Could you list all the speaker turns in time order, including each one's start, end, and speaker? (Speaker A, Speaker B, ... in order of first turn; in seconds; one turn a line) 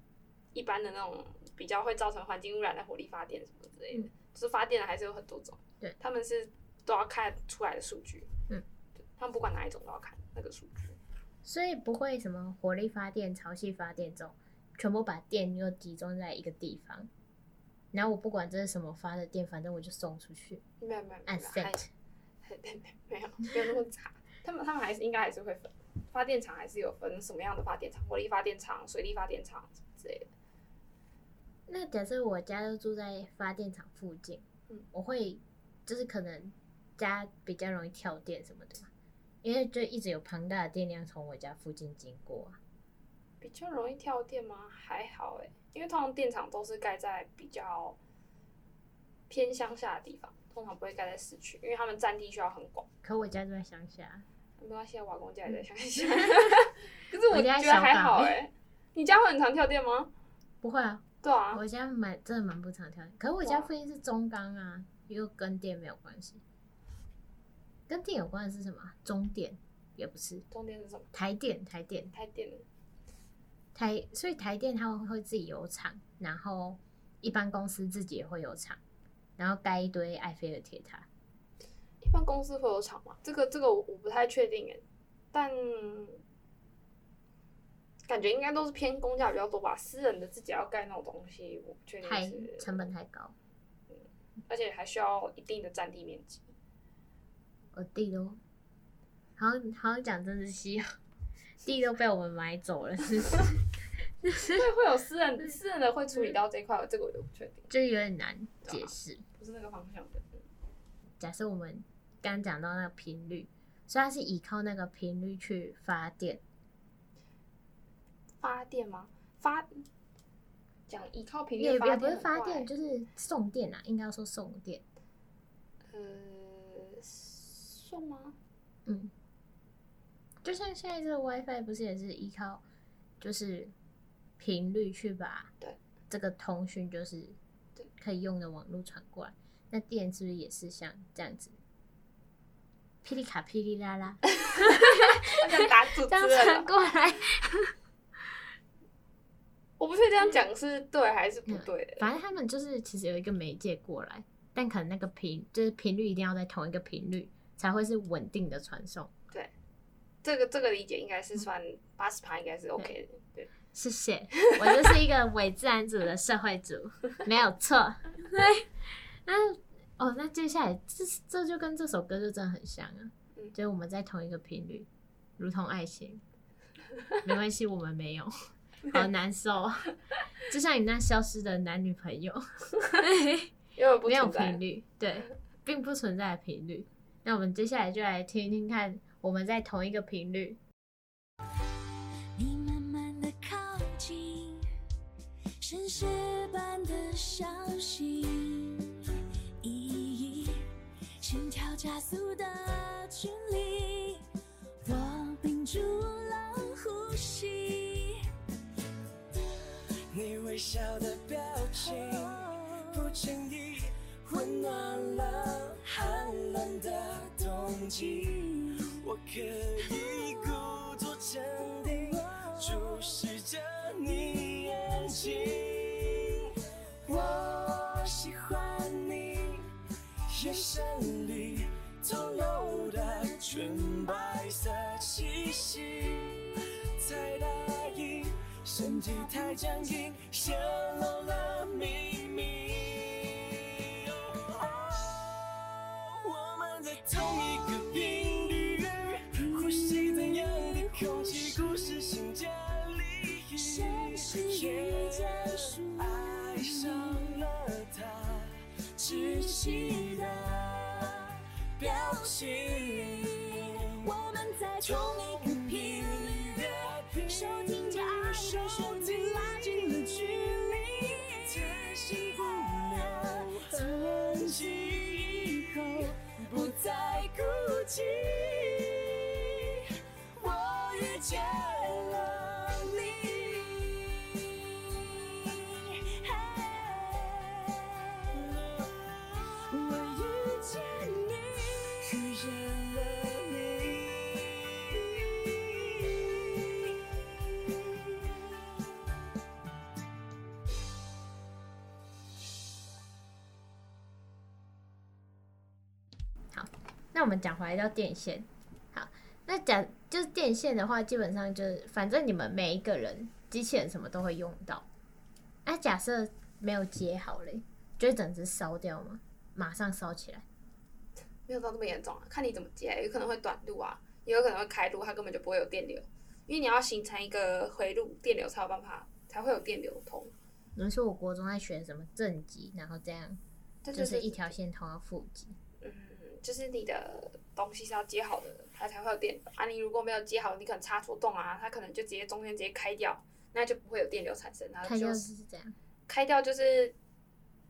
Speaker A: 0.5-8.3
Speaker A: 9.2-11.0
Speaker B: 11.4-17.1
Speaker B: 17.9-20.6
Speaker A: 20.8-21.8
Speaker B: 21.3-21.9
Speaker A: 22.4-30.3
Speaker B: 31.7-38.9
Speaker B: 39.4-42.6
Speaker A: 43.4-48.0
Speaker A: 49.3-52.9
Speaker B: 53.0-54.2
Speaker A: 54.6-60.1
Speaker B: 56.2-56.4
Speaker B: 57.3-58.4
Speaker B: 60.6-66.4
Speaker A: 61.2-61.6
Speaker A: 63.4-63.7
Speaker B: 67.9-70.4
Speaker A: 70.5-71.1
Speaker B: 71.1-72.1
Speaker A: 72.1-72.6
Speaker B: 73.7-78.8
Speaker B: 79.4-81.1
Speaker A: 82.0-86.2
Speaker A: 88.1-92.8
Speaker B: 92.0-93.3
Speaker A: 93.9-96.5
Speaker B: 97.7-98.4
Speaker B: 99.4-101.0
Speaker B: 101.6-103.6
Speaker B: 104.2-104.6
Speaker A: 104.5-107.7
Speaker B: 107.7-109.2
Speaker A: 108.6-110.4
Speaker B: 111.2-116.4
Speaker A: 118.4-119.8
Speaker A: 120.9-122.7
Speaker B: 121.6-124.8
Speaker A: 125.9-128.3
Speaker B: 128.8-129.1
Speaker B: 130.4-132.6
Speaker B: 133.2-133.7
Speaker B: 134.4-135.5
Speaker B: 136.1-137.4
Speaker B: 138.0-141.6
Speaker B: 143.0-147.7
Speaker A: 144.3-146.7
Speaker A: 149.8-152.1
Speaker B: 151.5-159.1
Speaker A: 160.2-163.5
Speaker B: 163.7-176.2
Speaker B: 177.2-178.3
Speaker B: 178.9-179.9
Speaker B: 180.5-190.6
Speaker A: 183.8-184.6
Speaker C: 192.3-194.7
Speaker C: 195.6-200.7
Speaker C: 201.2-204.2
Speaker C: 204.8-208.2
Speaker D: 210.1-226.5
Speaker C: 212.1-212.7
Speaker C: 222.1-223.1
Speaker D: 227.0-229.7
Speaker D: 230.3-261.3
Speaker C: 238.9-239.6
Speaker C: 247.1-248.7
Speaker C: 249.3-252.2
Speaker C: 253.5-257.4
Speaker C: 259.1-261.2
Speaker D: 261.8-264.1
Speaker C: 261.8-266.7
Speaker D: 264.8-284.4
Speaker C: 267.2-271.8
Speaker C: 272.5-274.2
Speaker C: 275.5-276.7
Speaker C: 286.3-287.6
Speaker D: 286.4-286.6
Speaker D: 288.3-296.9
Speaker C: 290.0-290.7
Speaker B: 306.5-314.9
Speaker B: 315.6-320.4
Speaker A: 321.5-330.3
Speaker B: 330.8-333.4
Speaker A: 333.8-334.5
Speaker B: 333.9-335.5
Speaker A: 335.8-345.3
Speaker B: 344.8-345.7
Speaker A: 346.1-346.9